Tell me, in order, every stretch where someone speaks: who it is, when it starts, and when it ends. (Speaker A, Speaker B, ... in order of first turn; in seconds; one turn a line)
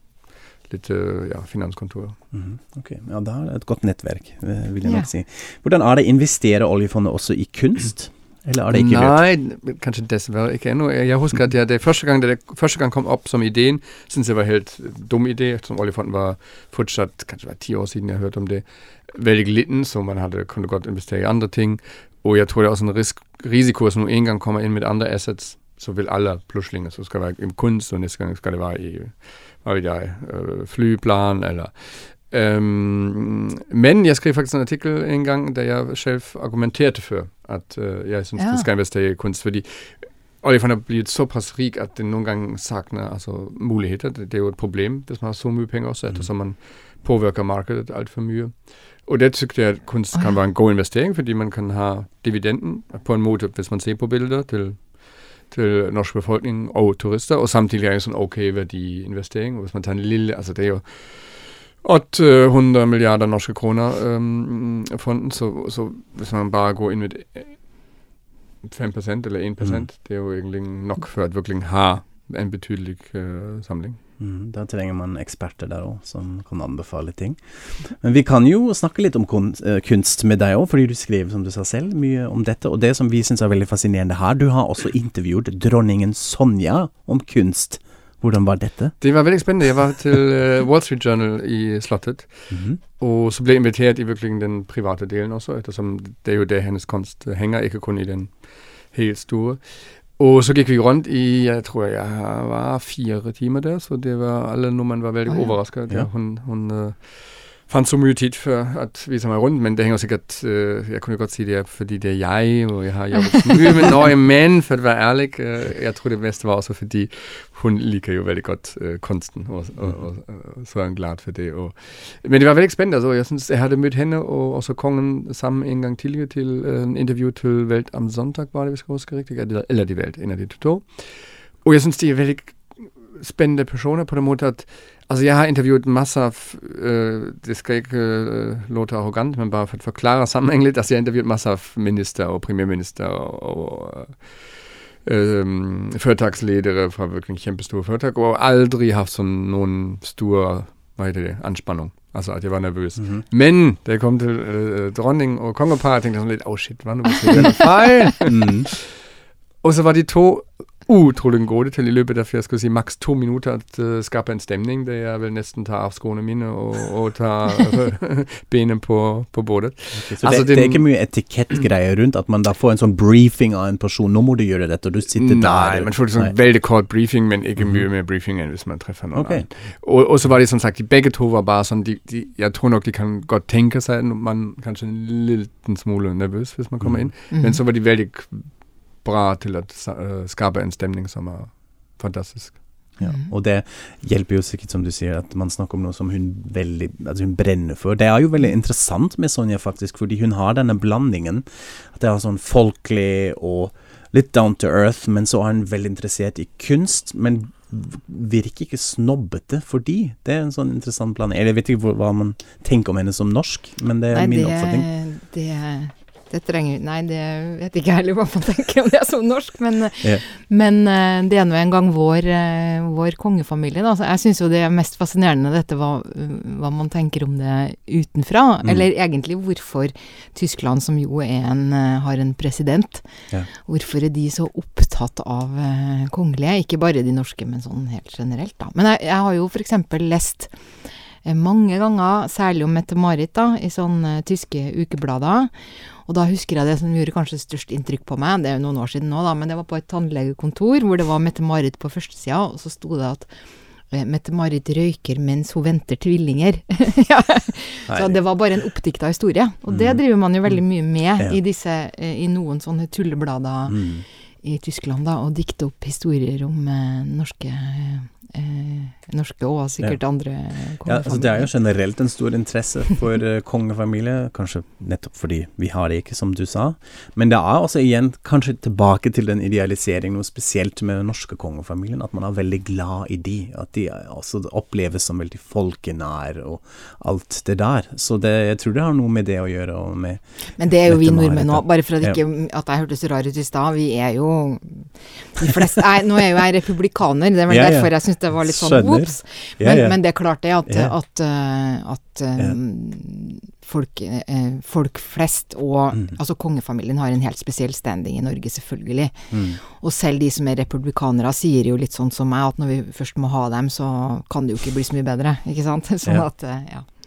Speaker A: 0.6-2.2
Speaker B: 2.3-9.2
Speaker C: 4.8-5.1
Speaker A: 8.7-67.6
Speaker C: 38.4-38.6
Speaker A: 68.6-74.0
Speaker B: 74.2-88.9
Speaker A: 89.0-144.5
Speaker B: 92.5-92.8
Speaker C: 105.3-105.5
Speaker A: 145.0-158.9
Speaker B: 153.0-153.2
Speaker B: 158.2-158.7
Speaker A: 159.6-170.8
Speaker B: 169.9-176.3
Speaker A: 175.1-192.6
Speaker B: 177.6-177.8
Speaker B: 179.1-179.4
Speaker B: 186.8-187.1
Speaker C: 187.3-187.6
Speaker B: 193.0-214.9
Speaker C: 193.0-193.3
Speaker C: 214.1-240.6
Speaker C: 241.2-245.5
Speaker C: 246.1-253.3
Speaker C: 253.9-271.5
Speaker B: 257.9-258.2
Speaker B: 259.7-260.1
Speaker B: 263.7-264.1
Speaker B: 270.8-292.2
Speaker C: 290.6-316.9
Speaker B: 297.5-300.1
Speaker B: 300.6-300.9
Speaker B: 309.3-309.6